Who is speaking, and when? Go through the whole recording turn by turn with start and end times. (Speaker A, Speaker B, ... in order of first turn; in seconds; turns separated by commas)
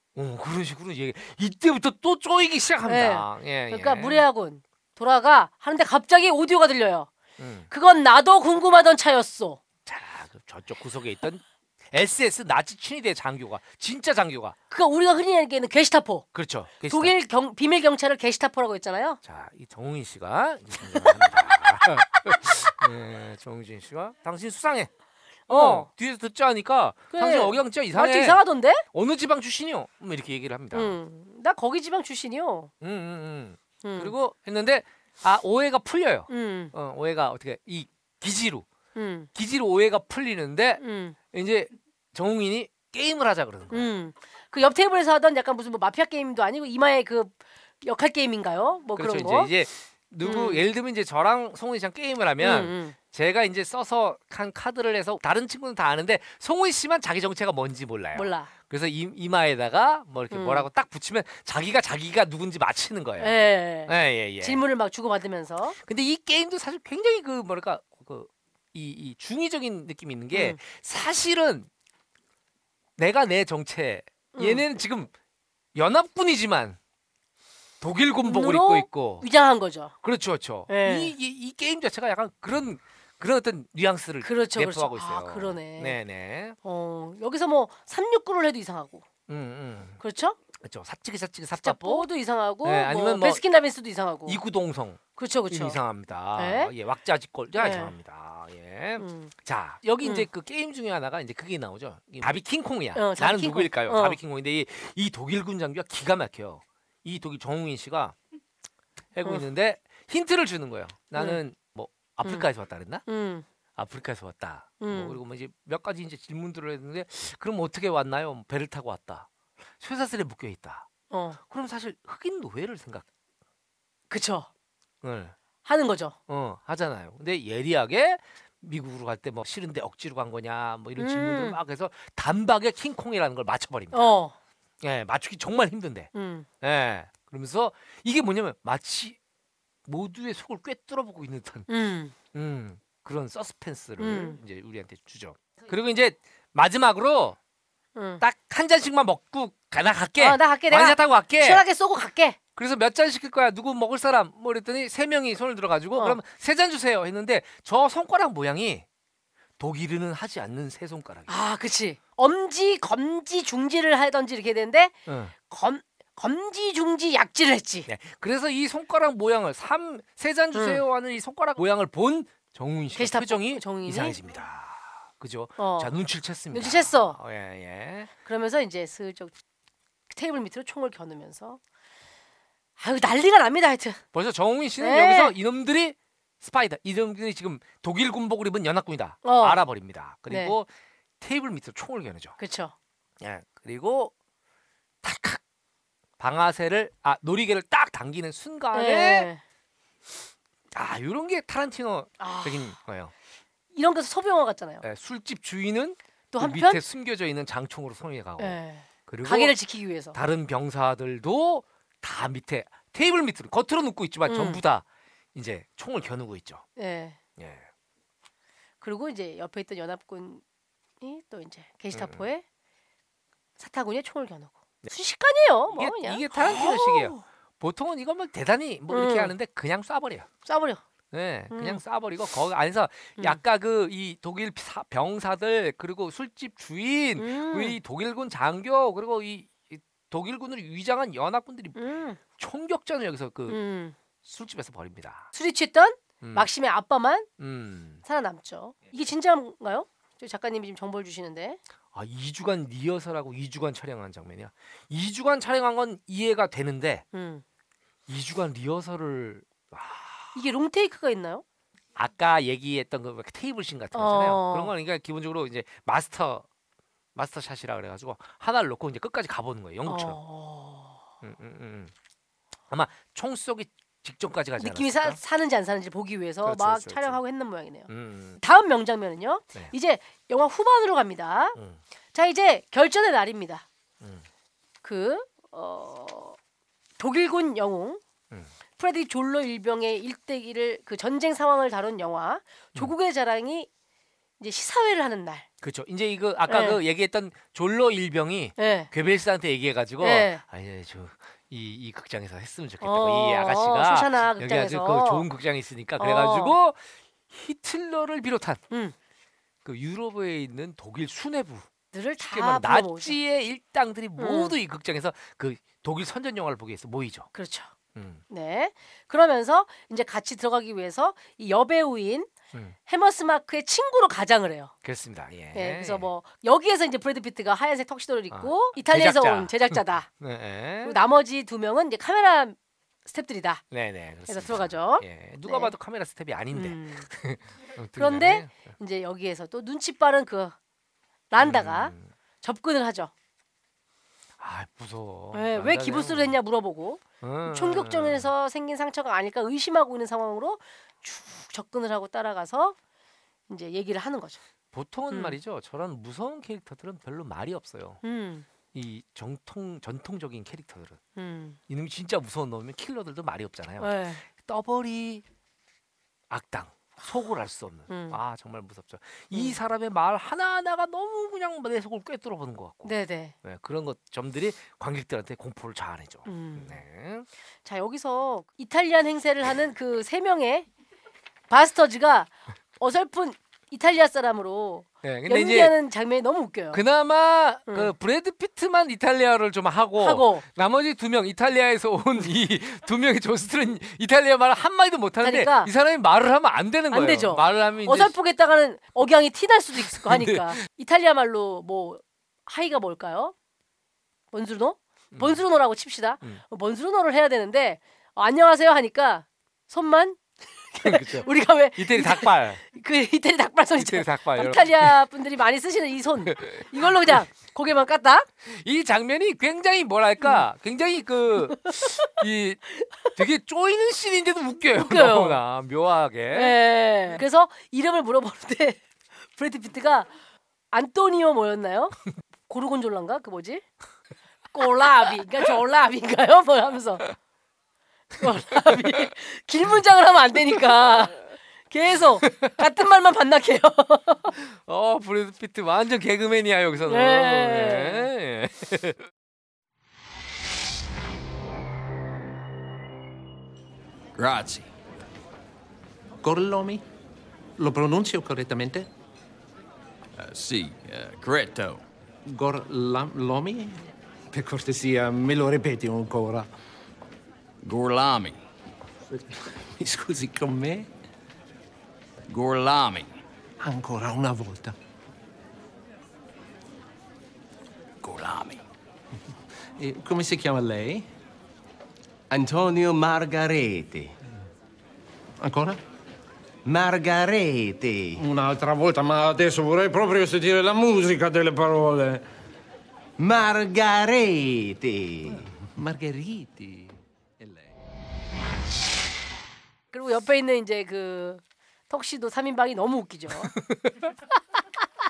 Speaker A: 0.1-4.2, Speaker B: 2.9-7.1, Speaker A: 7.4-7.7, Speaker B: 7.7-9.6, Speaker A: 9.9-14.6, Speaker B: 14.7-16.3, Speaker A: 16.3-17.1, Speaker B: 16.9-19.2, Speaker A: 19.2-24.9, Speaker B: 22.2-22.6, Speaker B: 25.5-25.9, Speaker A: 25.5-31.0, Speaker B: 27.1-28.8, Speaker B: 30.7-32.7, Speaker A: 32.8-38.7, Speaker B: 33.8-34.1, Speaker B: 36.3-36.7, Speaker B: 39.0-39.3, Speaker A: 39.4-40.8, Speaker B: 40.8-41.2, Speaker A: 41.3-43.9, Speaker B: 43.7-49.5, Speaker A: 49.0-64.6, Speaker B: 50.2-50.6, Speaker B: 52.4-53.0, Speaker B: 58.1-58.5, Speaker B: 60.3-60.7, Speaker B: 63.2-65.8, Speaker A: 65.8-71.7, Speaker B: 70.3-70.6, Speaker A: 73.0-75.1, Speaker B: 74.3-74.6, Speaker A: 75.8-76.8, Speaker A: 77.8-79.3, Speaker B: 78.2-79.9, Speaker A: 80.0-86.6, Speaker B: 80.7-81.1, Speaker B: 84.2-86.0, Speaker B: 86.6-89.0, Speaker A: 89.3-90.0, Speaker B: 90.0-90.4, Speaker A: 90.6-92.1, Speaker B: 91.6-94.4, Speaker A: 92.6-93.4, Speaker A: 94.3-108.2, Speaker B: 95.2-95.8, Speaker B: 96.4-96.7, Speaker B: 97.6-97.9, Speaker B: 99.0-99.3, Speaker B: 103.0-104.2, Speaker A: 109.2-113.0, Speaker B: 113.1-113.5, Speaker A: 113.8-119.3, Speaker B: 114.8-115.2, Speaker A: 119.8-120.9, Speaker B: 121.1-121.4, Speaker A: 121.4-123.1, Speaker B: 124.1-124.5, Speaker A: 125.0-125.3, Speaker B: 125.7-126.2, Speaker A: 126.3-134.1, Speaker B: 131.0-131.6, Speaker B: 133.9-134.3, Speaker A: 134.8-136.1, Speaker B: 136.1-136.5, Speaker A: 136.6-139.2, Speaker A: 139.9-141.7, Speaker B: 141.7-142.1, Speaker A: 142.3-147.4, Speaker B: 144.0-144.4, Speaker B: 147.9-148.2, Speaker A: 148.2-151.6, Speaker B: 150.2-152.4, Speaker A: 152.6-158.8, Speaker A: 159.6-161.3, Speaker B: 161.3-167.9, Speaker A: 165.1-165.3, Speaker A: 167.9-178.1, Speaker B: 170.5-170.8, Speaker B: 172.9-174.2, Speaker B: 175.6-175.9, Speaker B: 176.5-177.2, Speaker B: 178.3-179.3, Speaker B: 180.1-181.6, Speaker B: 182.8-184.0, Speaker A: 184.1-190.7, Speaker B: 184.8-185.3, Speaker B: 189.2-189.6, Speaker B: 190.3-190.6, Speaker A: 191.2-192.4, Speaker B: 192.4-192.8, Speaker A: 193.2-194.1, Speaker A: 195.0-195.4, Speaker A: 196.2-199.3, Speaker B: 198.7-199.4, Speaker A: 200.7-203.1, Speaker B: 202.2-202.8, Speaker B: 203.7-204.8, Speaker A: 204.8-209.6, Speaker B: 206.3-206.8, Speaker B: 208.4-210.2, Speaker A: 210.1-216.7, Speaker B: 214.3-214.6, Speaker B: 216.8-217.2, Speaker A: 217.4-217.7, Speaker B: 218.8-220.4, Speaker B: 221.0-222.4, Speaker A: 221.9-222.3, Speaker B: 223.6-227.2, Speaker A: 225.7-230.3, Speaker B: 228.9-229.3, Speaker B: 230.5-230.8, Speaker A: 231.1-241.8, Speaker B: 231.5-231.8, Speaker B: 237.2-237.8, Speaker B: 241.8-242.2, Speaker A: 242.3-243.6, Speaker B: 243.5-244.0, Speaker A: 244.2-245.3, Speaker B: 245.3-247.3, Speaker A: 246.2-246.5, Speaker A: 247.4-248.0, Speaker B: 248.0-251.6, Speaker A: 251.9-257.1, Speaker B: 257.1-257.4, Speaker A: 258.1-260.4, Speaker B: 260.4-261.4, Speaker A: 262.0-266.5, Speaker B: 263.9-264.7, Speaker A: 267.1-270.2, Speaker B: 269.9-271.0, Speaker A: 271.2-271.9, Speaker A: 272.7-275.2, Speaker B: 274.6-281.6, Speaker A: 276.4-277.2, Speaker A: 277.9-278.4, Speaker A: 281.6-281.8, Speaker B: 282.1-283.6, Speaker A: 284.0-284.3, Speaker B: 284.8-286.4, Speaker B: 287.0-288.0, Speaker B: 288.8-293.7, Speaker B: 294.4-295.5, Speaker A: 295.6-308.6, Speaker B: 296.5-296.8, Speaker B: 298.6-298.9, Speaker B: 300.0-300.4, Speaker B: 302.8-305.3, Speaker B: 306.0-306.6, Speaker A: 309.6-311.7, Speaker B: 311.9-313.2, Speaker A: 312.2-317.3, Speaker B: 314.2-314.6, Speaker B: 317.3-317.7, Speaker A: 317.9-318.2, Speaker B: 318.3-322.3, Speaker B: 322.9-324.7, Speaker A: 324.8-326.1, Speaker B: 325.5-330.1, Speaker A: 328.3-331.0, Speaker B: 330.8-333.6, Speaker A: 333.7-338.5, Speaker B: 334.3-335.7, Speaker B: 336.5-337.1, Speaker B: 337.9-340.6, Speaker B: 341.3-343.1, Speaker A: 341.4-342.1, Speaker A: 344.4-346.4, Speaker B: 345.3-352.8, Speaker A: 347.2-348.3, Speaker B: 353.5-354.4, Speaker A: 354.7-358.0, Speaker B: 355.1-355.4, Speaker B: 358.0-358.5, Speaker A: 358.7-361.0, Speaker B: 361.2-361.6, Speaker A: 361.7-365.2, Speaker B: 363.8-364.2, Speaker A: 366.3-377.3, Speaker B: 367.9-368.2, Speaker B: 372.8-373.4, Speaker B: 376.3-376.8, Speaker B: 377.6-380.7, Speaker B: 381.5-386.8, Speaker A: 385.0-385.8, Speaker A: 386.7-398.1, Speaker B: 390.0-390.4, Speaker B: 395.2-395.7, Speaker B: 396.9-403.3, Speaker A: 399.9-400.6, Speaker B: 404.3-418.3, Speaker A: 405.1-405.4, Speaker A: 410.8-412.6, Speaker A: 413.8-415.0, Speaker A: 416.3-417.1, Speaker A: 418.4-426.6, Speaker B: 421.6-422.1, Speaker B: 424.7-425.4, Speaker B: 426.3-428.8, Speaker B: 429.3-430.1, Speaker B: 430.7-432.0, Speaker B: 432.5-433.6, Speaker B: 434.5-437.1, Speaker B: 438.2-444.3, Speaker A: 438.2-439.1, Speaker A: 444.4-449.1, Speaker B: 446.9-448.1, Speaker C: 454.2-454.7, Speaker D: 456.2-456.8, Speaker D: 457.6-458.9, Speaker C: 460.2-461.8, Speaker D: 462.3-463.8, Speaker D: 464.3-466.5, Speaker C: 467.6-468.4, Speaker D: 469.1-470.9, Speaker C: 472.3-473.1, Speaker D: 473.6-474.8, Speaker C: 478.0-478.6, Speaker D: 479.8-481.1, Speaker E: 482.3-484.1, Speaker D: 485.4-485.8, Speaker E: 486.7-488.2, Speaker D: 488.2-488.5, Speaker F: 488.2-492.2, Speaker E: 493.2-495.3, Speaker D: 495.4-497.7, Speaker B: 499.9-503.5, Speaker A: 503.4-504.7